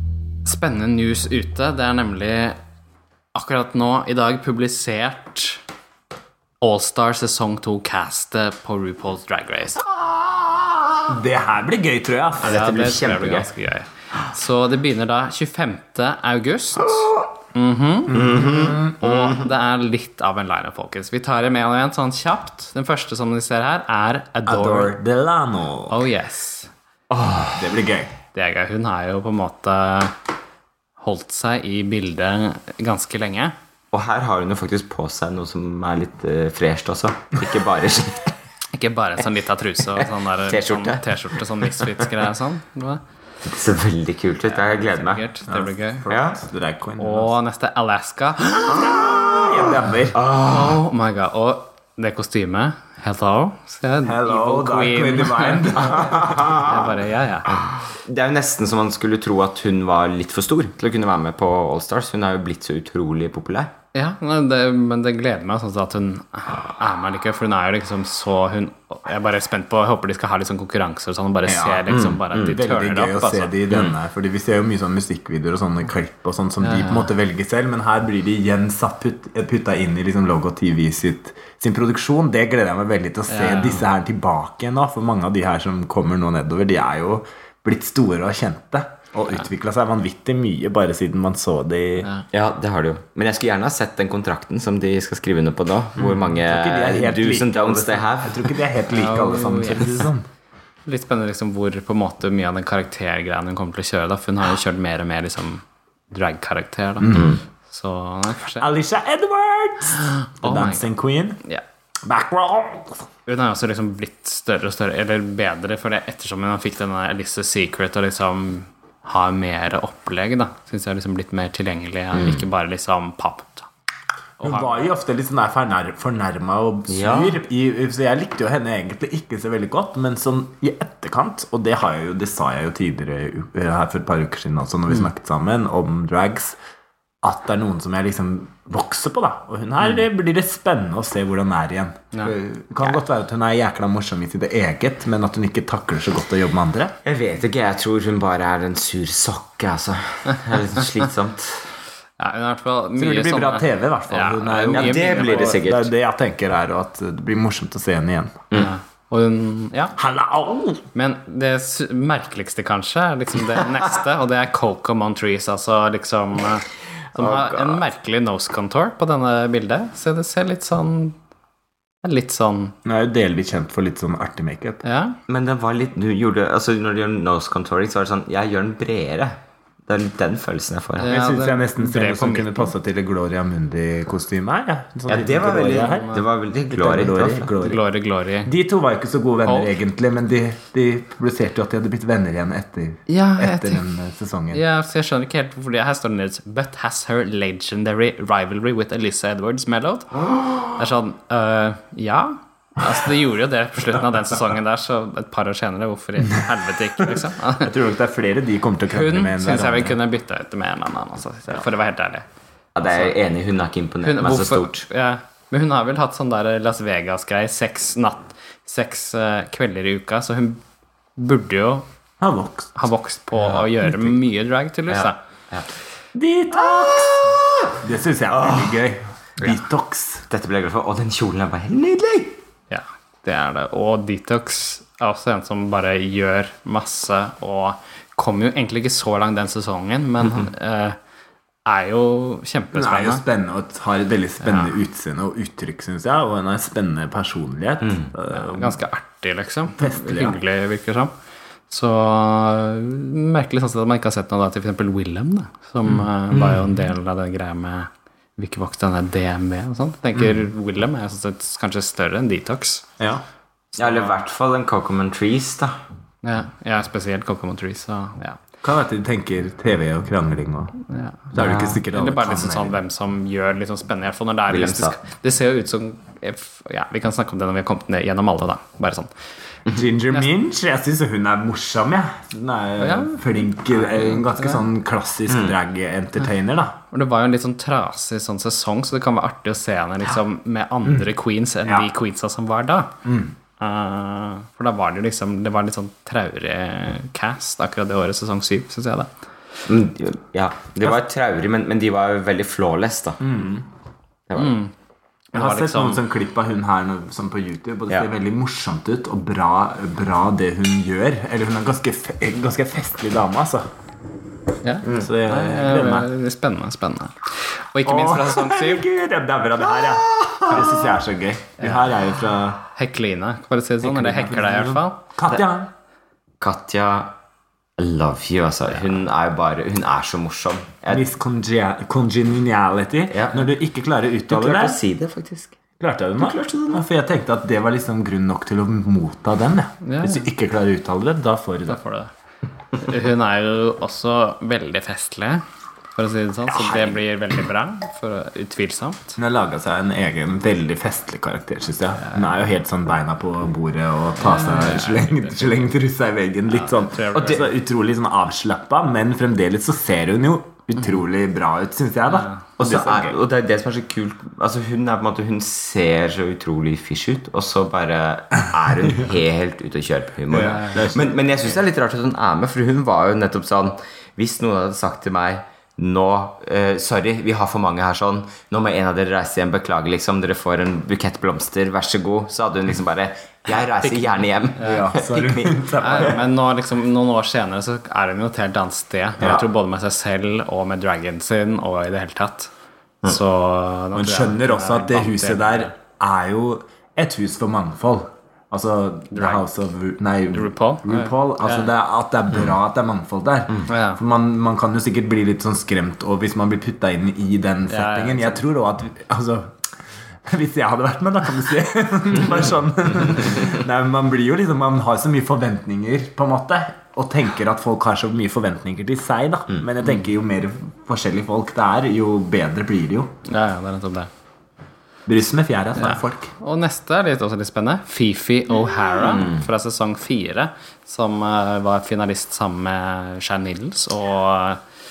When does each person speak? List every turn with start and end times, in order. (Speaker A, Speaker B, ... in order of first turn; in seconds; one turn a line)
Speaker A: 0.5-2.6
Speaker A: 3.3-5.6
Speaker A: 6.6-9.9
Speaker B: 11.1-12.7
Speaker C: 12.4-13.5
Speaker A: 12.4-25.0
Speaker C: 18.1-19.4
Speaker B: 18.1-19.0
Speaker B: 24.4-26.1
Speaker A: 25.9-26.7
Speaker C: 27.1-27.7
Speaker B: 27.6-28.1
Speaker A: 28.3-30.1
Speaker A: 31.0-33.5
Speaker C: 33.9-38.3
Speaker A: 38.7-43.0
Speaker C: 40.0-42.1
Speaker C: 43.4-45.3
Speaker A: 44.5-46.0
Speaker B: 45.5-47.4
Speaker C: 46.1-46.4
Speaker A: 47.0-49.0
Speaker B: 48.7-50.2
Speaker C: 49.0-50.8
Speaker A: 50.5-57.5
Speaker B: 54.0-56.9
Speaker C: 56.3-56.9
Speaker C: 57.5-63.7
Speaker A: 63.9-73.6
Speaker B: 71.5-92.1
Speaker C: 71.9-72.5
Speaker C: 73.7-74.0
Speaker A: 76.6-77.1
Speaker A: 83.3-83.8
Speaker C: 92.3-98.5
Speaker B: 96.0-100.3
Speaker A: 98.9-100.1
Speaker A: 100.9-108.7
Speaker B: 107.0-107.3
Speaker C: 107.1-107.4
Speaker B: 108.6-111.4
Speaker A: 110.2-110.9
Speaker B: 112.1-113.0
Speaker A: 113.2-123.7
Speaker C: 122.1-122.5
Speaker A: 124.4-124.9
Speaker B: 124.4-136.6
Speaker C: 126.9-127.4
Speaker B: 137.2-146.9
Speaker C: 147.1-151.7
Speaker A: 152.2-155.6
Speaker B: 152.9-158.4
Speaker C: 154.7-155.9
Speaker A: 158.5-160.0
Speaker B: 160.0-160.8
Speaker A: 160.9-171.1
Speaker C: 167.1-167.9
Speaker A: 172.0-172.8
Speaker B: 172.8-174.8
Speaker A: 174.8-175.2
Speaker C: 175.3-181.1
Speaker A: 181.0-182.7
Speaker B: 181.1-187.8
Speaker C: 185.1-187.5
Speaker A: 185.7-186.2
Speaker A: 187.6-188.5
Speaker B: 188.4-194.6
Speaker A: 189.4-189.8
Speaker A: 193.1-193.8
Speaker A: 194.5-207.7
Speaker B: 207.0-210.0
Speaker A: 208.9-212.2
Speaker C: 212.8-214.9
Speaker A: 214.0-220.6
Speaker A: 221.2-221.8
Speaker B: 222.2-222.8
Speaker A: 222.8-225.2
Speaker C: 224.9-225.7
Speaker B: 226.1-230.2
Speaker C: 226.7-227.7
Speaker C: 228.4-228.7
Speaker C: 230.3-232.4
Speaker A: 232.7-240.9
Speaker A: 241.6-243.2
Speaker B: 242.7-248.8
Speaker A: 244.4-244.8
Speaker C: 247.8-248.1
Speaker A: 248.3-251.1
Speaker B: 249.8-250.4
Speaker A: 251.7-262.8
Speaker B: 256.3-256.7
Speaker A: 263.7-264.2
Speaker C: 263.8-265.7
Speaker A: 266.2-268.4
Speaker B: 268.6-270.8
Speaker A: 270.9-271.2
Speaker B: 271.3-272.8
Speaker C: 271.4-271.8
Speaker A: 271.8-279.1
Speaker C: 274.5-275.0
Speaker B: 279.7-286.8
Speaker A: 282.8-284.6
Speaker C: 285.3-285.5
Speaker A: 286.9-292.9
Speaker B: 293.0-293.3
Speaker A: 293.6-299.1
Speaker C: 299.7-303.2
Speaker B: 303.2-303.6
Speaker C: 304.3-304.5
Speaker A: 304.3-304.7
Speaker A: 305.3-306.0
Speaker B: 305.3-313.6
Speaker A: 314.6-318.9
Speaker C: 314.8-315.1
Speaker B: 314.9-316.1
Speaker B: 317.8-322.6
Speaker C: 320.0-320.7
Speaker A: 321.6-321.9
Speaker A: 322.8-325.0
Speaker B: 323.8-325.7
Speaker C: 326.4-327.1
Speaker C: 327.8-331.0
Speaker B: 330.9-334.8
Speaker C: 333.1-333.5
Speaker C: 334.3-335.6
Speaker B: 335.8-341.8
Speaker C: 336.2-336.8
Speaker A: 339.8-340.3
Speaker A: 341.7-342.1
Speaker A: 342.8-345.4
Speaker A: 345.9-349.2
Speaker B: 346.5-347.0
Speaker B: 349.2-363.2
Speaker A: 354.2-355.7
Speaker A: 356.5-357.6
Speaker C: 357.1-357.5
Speaker A: 362.1-362.4
Speaker C: 362.6-386.1
Speaker B: 370.3-371.6
Speaker A: 383.8-384.9
Speaker B: 384.6-386.2
Speaker A: 385.8-392.5
Speaker A: 393.0-395.7
Speaker B: 393.9-409.5
Speaker A: 399.1-399.5
Speaker A: 400.3-401.7
Speaker A: 403.7-404.0
Speaker A: 407.7-408.5
Speaker B: 410.3-423.1
Speaker A: 423.2-424.1
Speaker B: 425.1-426.3
Speaker A: 425.8-434.6
Speaker C: 429.1-429.5